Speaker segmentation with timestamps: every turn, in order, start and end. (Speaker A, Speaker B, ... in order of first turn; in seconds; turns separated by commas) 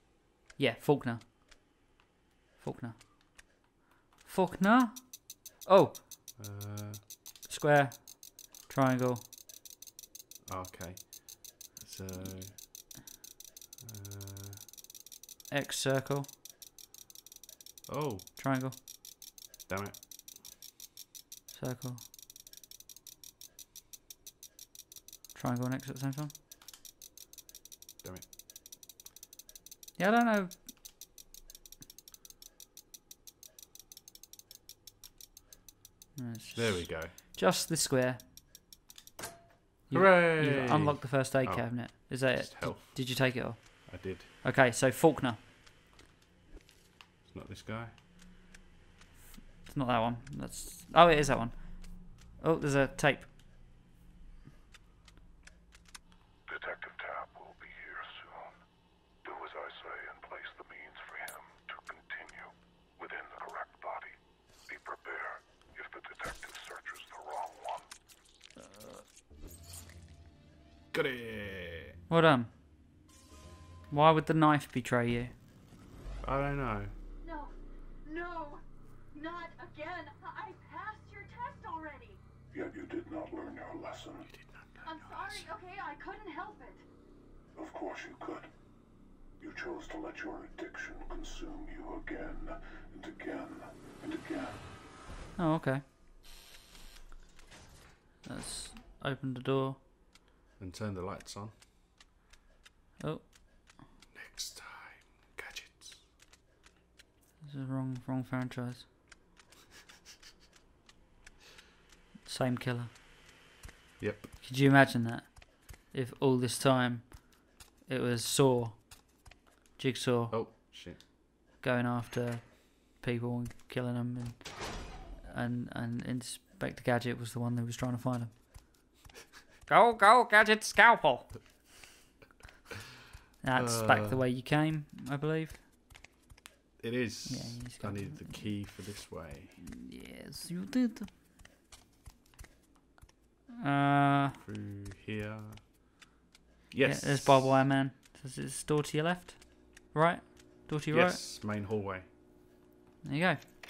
Speaker A: 0.6-1.2, Speaker A: 2.6-3.0, Speaker A: 4.2-6.0, Speaker B: 6.4-7.1, Speaker A: 7.4-9.2, Speaker B: 10.5-12.6, Speaker B: 13.8-14.6, Speaker A: 15.5-16.3, Speaker B: 17.9-18.3, Speaker A: 18.4-18.8, Speaker B: 19.7-20.0, Speaker A: 21.5-22.0, Speaker A: 25.3-26.3, Speaker B: 28.0-28.3, Speaker A: 30.0-30.6, Speaker A: 36.1-38.2, Speaker B: 36.5-37.1, Speaker A: 39.9-45.4, Speaker B: 39.9-44.3, Speaker B: 47.3-47.9, Speaker A: 49.6-53.3, Speaker C: 56.5-58.4, Speaker C: 59.2-62.5, Speaker C: 63.0-64.1, Speaker C: 64.7-67.7, Speaker A: 68.7-69.0, Speaker B: 70.9-72.0, Speaker A: 72.1-72.5, Speaker A: 73.9-75.3, Speaker B: 76.2-76.9, Speaker D: 77.2-82.2, Speaker C: 82.5-84.2, Speaker B: 84.2-85.5, Speaker D: 84.8-86.8, Speaker C: 87.5-88.5, Speaker C: 89.4-94.5, Speaker A: 95.4-95.8, Speaker A: 98.2-99.8, Speaker B: 100.6-101.5, Speaker A: 103.0-103.3, Speaker B: 104.1-106.0, Speaker A: 107.4-108.9, Speaker A: 112.2-112.9, Speaker B: 114.0-114.3, Speaker A: 114.4-118.9, Speaker A: 119.8-120.5, Speaker B: 120.3-121.0, Speaker A: 121.6-128.6, Speaker A: 129.7-131.4, Speaker A: 133.4-135.6, Speaker B: 133.5-134.2, Speaker B: 136.8-139.6, Speaker A: 137.2-138.6, Speaker A: 139.6-141.1, Speaker A: 143.6-144.4, Speaker B: 144.4-145.6, Speaker B: 146.7-147.6, Speaker A: 146.8-151.2, Speaker B: 150.9-152.0, Speaker A: 153.0-153.4